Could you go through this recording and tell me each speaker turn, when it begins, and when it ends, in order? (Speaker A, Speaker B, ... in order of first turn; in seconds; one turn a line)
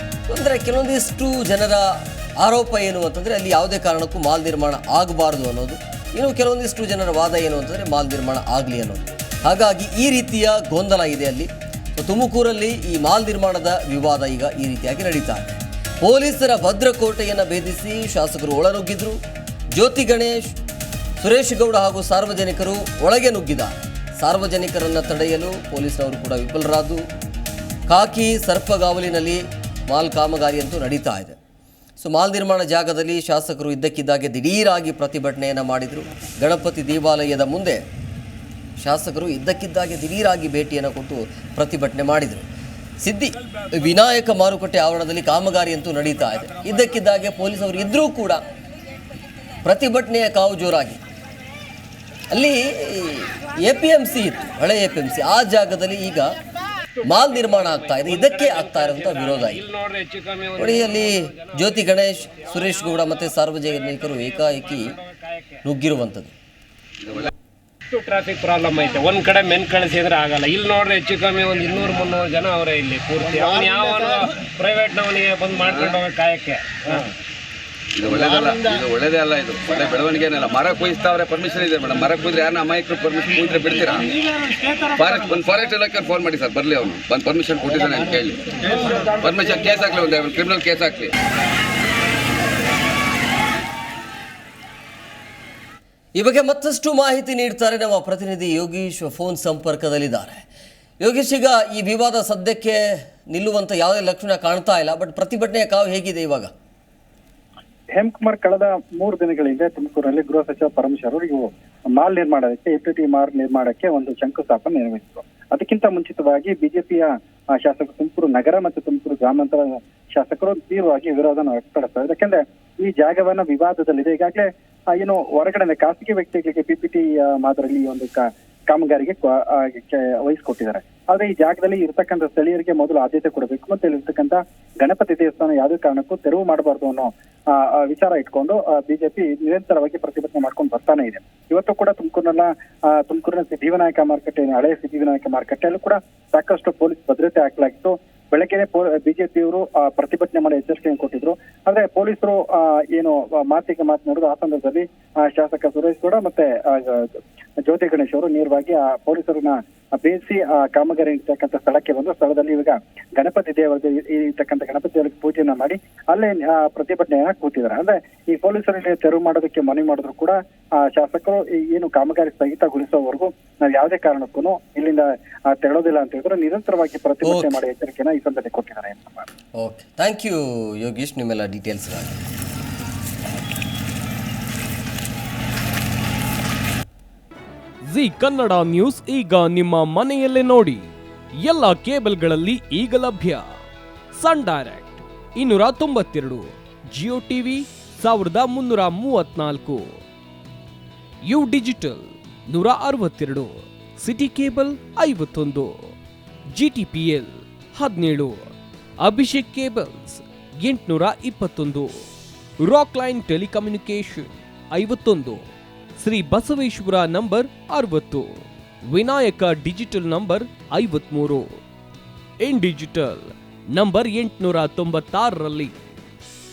Speaker A: 0.3-19.2
Speaker A: 19.7-20.5
Speaker A: 21.2-27.0
Speaker A: 27.9-31.4
Speaker A: 32.0-37.8
Speaker A: 38.8-42.4
Speaker A: 43.0-48.4
Speaker A: 49.6-51.0
Speaker A: 52.3-56.3
Speaker B: 56.9-61.8
Speaker A: 57.0-59.6
Speaker A: 60.6-65.0
Speaker B: 64.2-65.6
Speaker A: 65.6-66.3
Speaker C: 67.0-67.3
Speaker B: 67.9-77.1
Speaker C: 75.6-76.0
Speaker C: 77.9-84.1
Speaker C: 84.9-88.5
Speaker B: 88.8-89.2
Speaker C: 89.1-91.1
Speaker A: 96.1-100.4
Speaker A: 101.0-106.5
Speaker D: 107.9-157.1
Speaker D: 157.6-179.2
Speaker A: 177.2-177.5
Speaker A: 179.6-182.2
Speaker E: 187.8-190.9
Speaker E: 191.4-193.5
Speaker E: 194.1-199.9
Speaker E: 201.2-205.9
Speaker E: 206.5-208.5
Speaker E: 209.0-212.0
Speaker E: 212.6-215.4
Speaker E: 216.0-221.5
Speaker E: 222.4-225.7